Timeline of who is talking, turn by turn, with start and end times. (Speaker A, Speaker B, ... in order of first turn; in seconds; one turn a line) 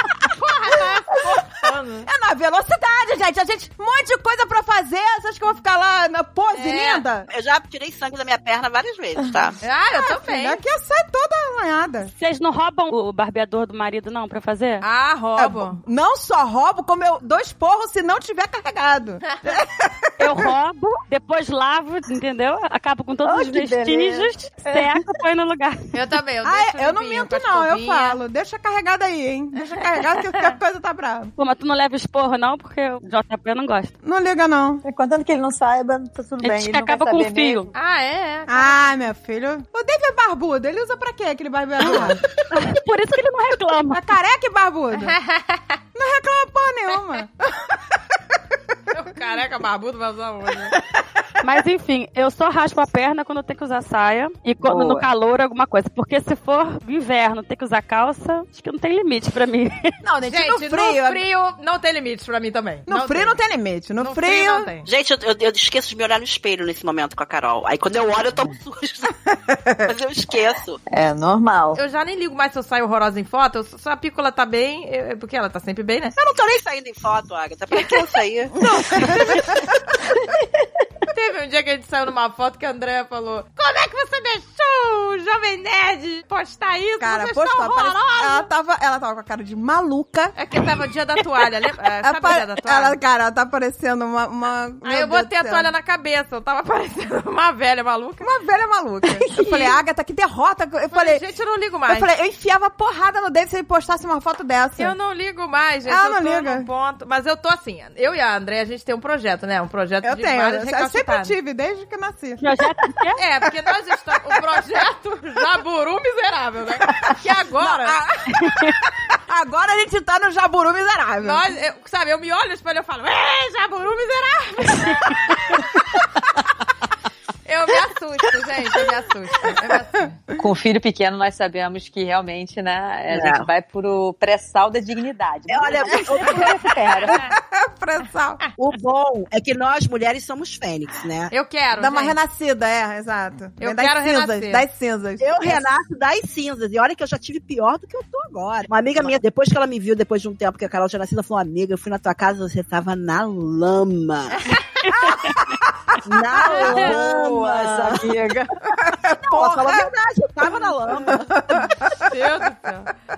Speaker A: 0.3-2.1
Speaker B: 2.0-7.3
Speaker A: 6.5-7.0
Speaker C: 7.3-9.6
Speaker A: 9.6-10.6
Speaker B: 9.9-12.1
Speaker D: 12.1-14.8
Speaker A: 14.8-15.8
Speaker B: 15.4-20.4
Speaker D: 20.2-25.9
Speaker E: 23.2-25.0
Speaker A: 25.9-28.2
Speaker B: 26.4-31.3
Speaker D: 31.4-33.9
Speaker B: 34.0-34.8
Speaker E: 34.8-37.7
Speaker D: 36.4-37.7
Speaker A: 37.7-38.9
Speaker B: 38.5-42.2
Speaker D: 41.8-44.0
Speaker B: 43.9-45.2
Speaker A: 45.0-45.8
Speaker B: 45.9-47.3
Speaker A: 48.9-50.8
Speaker D: 51.4-59.9
Speaker E: 54.6-55.1
Speaker B: 60.0-61.2
Speaker A: 60.3-63.4
Speaker B: 62.9-64.7
Speaker A: 64.0-64.9
Speaker C: 64.8-69.2
Speaker C: 69.8-70.8
Speaker E: 70.9-71.8
Speaker A: 71.7-76.1
Speaker C: 76.2-78.6
Speaker A: 78.7-79.4
Speaker B: 78.7-79.6
Speaker E: 80.3-80.7
Speaker A: 81.1-88.5
Speaker B: 87.0-90.3
Speaker A: 90.3-93.0
Speaker B: 92.0-95.7
Speaker A: 94.8-98.2
Speaker B: 98.2-101.2
Speaker A: 99.3-99.8
Speaker A: 100.9-102.1
Speaker B: 101.9-104.9
Speaker A: 104.8-111.3
Speaker B: 105.9-106.7
Speaker B: 110.0-112.4
Speaker D: 112.4-113.2
Speaker A: 113.2-118.0
Speaker B: 117.6-121.4
Speaker D: 118.4-118.7
Speaker A: 121.2-125.6
Speaker A: 127.5-130.2
Speaker E: 130.4-137.2
Speaker C: 133.1-133.4
Speaker C: 135.5-136.5
Speaker B: 137.1-138.4
Speaker C: 138.6-141.3
Speaker A: 141.3-142.2
Speaker B: 141.8-145.6
Speaker A: 143.6-144.6
Speaker C: 145.2-154.5
Speaker D: 154.8-155.4
Speaker C: 156.0-158.1
Speaker B: 156.3-156.8
Speaker E: 156.4-158.5
Speaker A: 156.5-156.9
Speaker B: 158.9-159.8
Speaker C: 159.2-161.4
Speaker B: 161.1-161.9
Speaker A: 161.9-162.9